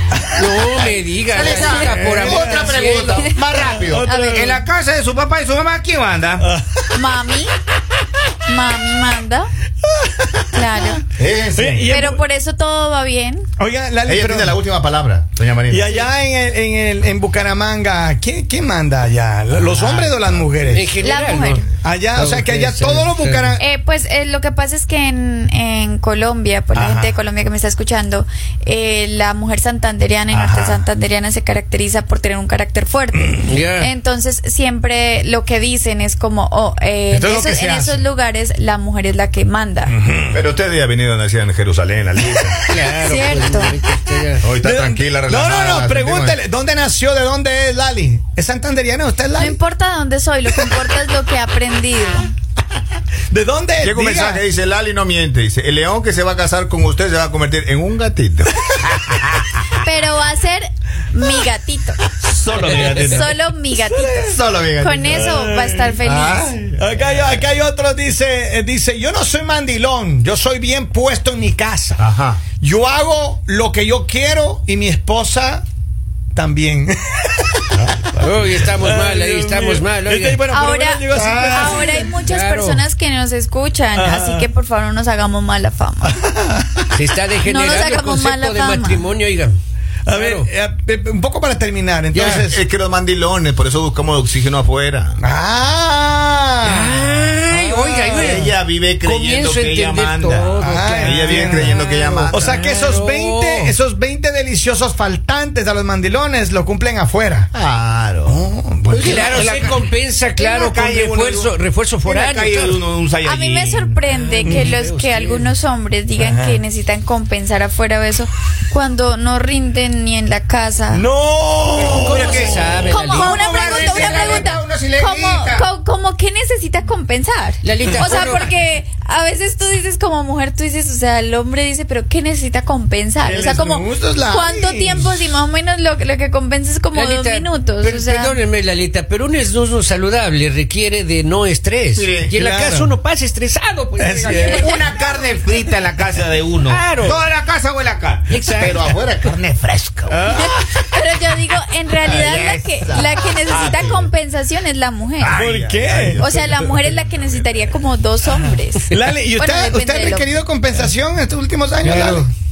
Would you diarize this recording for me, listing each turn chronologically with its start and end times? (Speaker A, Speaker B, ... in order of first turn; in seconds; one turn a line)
Speaker A: 0.1-0.9
Speaker B: 0.4-3.4
Speaker C: 1.3-6.5
Speaker D: 1.4-1.9
Speaker A: 1.7-2.8
Speaker A: 3.5-4.6
Speaker D: 4.0-4.6
Speaker A: 6.4-6.9
Speaker D: 6.9-7.5
Speaker D: 8.5-9.5
Speaker A: 9.8-10.4
Speaker D: 10.5-11.0
Speaker C: 11.2-11.9
Speaker A: 11.6-12.2
Speaker D: 11.8-13.5
Speaker A: 13.6-14.6
Speaker C: 14.1-15.9
Speaker A: 15.7-20.9
Speaker C: 19.6-20.4
Speaker B: 20.7-23.6
Speaker D: 21.0-21.7
Speaker A: 21.8-23.6
Speaker D: 23.6-40.0
Speaker A: 26.8-27.1
Speaker A: 30.3-30.9
Speaker B: 33.5-33.9
Speaker A: 37.1-38.0
Speaker A: 39.9-40.4
Speaker C: 40.3-42.6
Speaker B: 42.7-44.4
Speaker D: 43.0-43.8
Speaker C: 44.4-46.4
Speaker A: 44.6-49.6
Speaker D: 49.4-52.3
Speaker A: 50.5-50.8
Speaker A: 53.3-54.4
Speaker C: 53.8-59.6
Speaker D: 59.8-62.0
Speaker C: 62.2-63.4
Speaker B: 62.6-63.2
Speaker D: 62.9-66.5
Speaker A: 63.8-64.4
Speaker C: 64.2-65.4
Speaker A: 65.1-66.0
Speaker C: 66.0-66.9
Speaker A: 66.7-72.0
Speaker C: 72.0-72.4
Speaker A: 72.6-75.6
Speaker A: 76.3-82.1
Speaker B: 78.2-80.4
Speaker D: 80.5-86.2
Speaker C: 81.1-81.8
Speaker B: 82.2-82.8
Speaker A: 84.0-84.5
Speaker A: 86.0-86.9
Speaker B: 86.9-89.6
Speaker D: 87.5-89.1
Speaker A: 90.1-92.6
Speaker B: 90.1-90.5
Speaker B: 92.1-92.5
Speaker C: 92.3-95.2
Speaker A: 95.2-98.5
Speaker B: 96.6-103.8
Speaker C: 98.1-102.5
Speaker A: 100.6-101.8
Speaker A: 102.3-107.5
Speaker C: 107.5-111.5
Speaker A: 108.3-109.5
Speaker B: 109.0-112.8
Speaker C: 112.0-114.0
Speaker D: 113.2-121.1
Speaker B: 114.1-115.5
Speaker A: 114.5-114.8
Speaker A: 116.2-116.6
Speaker A: 120.9-122.9
Speaker B: 121.8-124.5
Speaker C: 122.0-125.7
Speaker D: 122.9-138.4
Speaker B: 127.6-128.5
Speaker A: 133.2-135.2
Speaker B: 136.9-144.9
Speaker C: 142.0-142.3
Speaker A: 142.3-142.9
Speaker A: 144.0-144.9
Speaker C: 144.4-150.2
Speaker B: 146.6-147.2
Speaker B: 148.3-149.0
Speaker A: 150.1-150.6
Speaker D: 150.3-155.4
Speaker C: 152.0-154.1
Speaker C: 155.2-157.4
Speaker A: 155.3-156.3
Speaker D: 156.2-160.4
Speaker A: 158.4-162.3
Speaker B: 161.8-162.3